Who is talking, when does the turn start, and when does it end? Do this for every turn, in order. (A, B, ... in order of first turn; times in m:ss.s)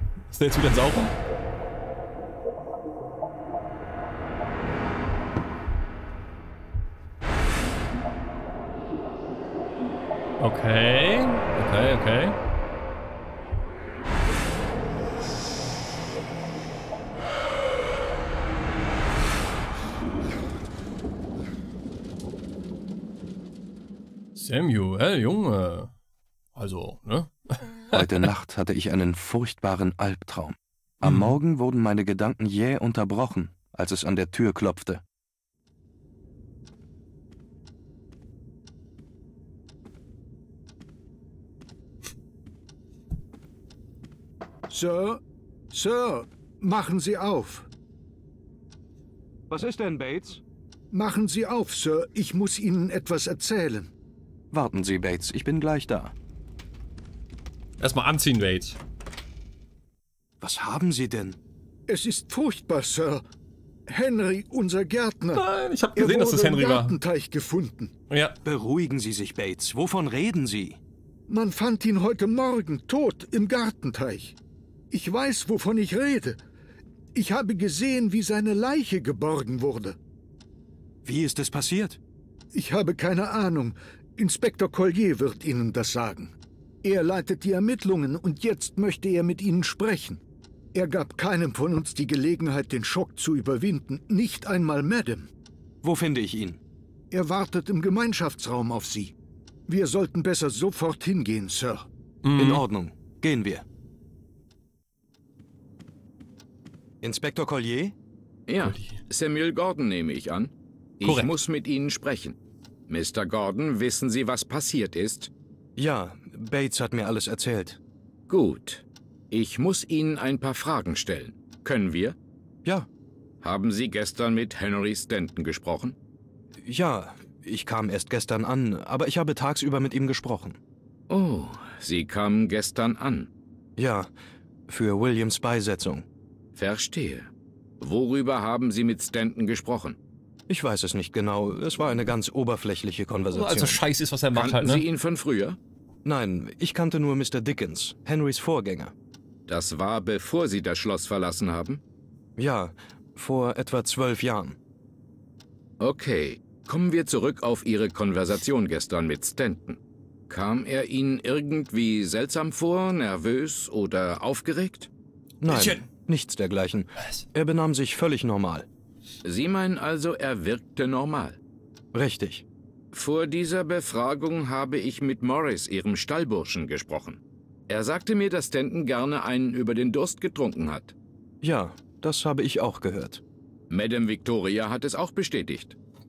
0:00.3-0:01.1 A
0:10.4-0:12.4 A
0:24.3-0:25.9 A
0:26.5-0:28.3 A
0:27.9-0:35.0 B
0:31.0-0:31.3 A
0:44.7-0:47.7 C
0:49.5-0:50.4 B
0:50.9-0:53.9 C
0:54.5-0:56.1 B
0:57.8-0:58.8 A
1:00.4-1:01.4 B
1:01.9-1:03.2 C
1:03.9-1:07.9 C
1:05.3-1:06.9 A
1:08.1-1:08.4 A
1:08.4-1:10.8 B
1:11.3-1:14.4 C
1:14.9-1:16.4 C
1:17.1-1:20.0 C
1:21.0-1:22.0 B
1:22.5-1:30.2 C
1:30.7-1:35.3 C
1:35.8-1:36.6 B
1:37.1-1:39.1 C
1:39.7-1:41.8 C
1:42.2-1:42.6 A
1:42.4-1:43.6 B
1:47.0-1:47.9 B
1:48.5-1:52.4 D
1:48.6-1:49.0 A
1:51.0-1:51.3 A
1:52.9-1:55.3 D
1:55.8-1:57.8 B
1:58.3-2:02.2 D
2:03.4-2:06.0 D
2:06.6-2:10.6 B
2:11.1-2:13.3 D
2:13.8-2:14.1 B
2:14.7-2:16.0 B
2:16.6-2:20.0 D
2:20.5-2:23.8 B
2:23.3-2:24.8 A
2:24.3-2:25.6 D
2:26.0-2:28.9 B
2:29.5-2:31.8 D
2:32.4-2:34.6 B
2:35.8-2:44.9 D
2:45.4-2:48.7 B
2:45.5-2:45.8 A
2:49.2-2:51.4 D
2:51.9-2:52.4 B
2:52.9-3:00.9 D
3:01.4-3:03.2 B
3:03.7-3:05.8 D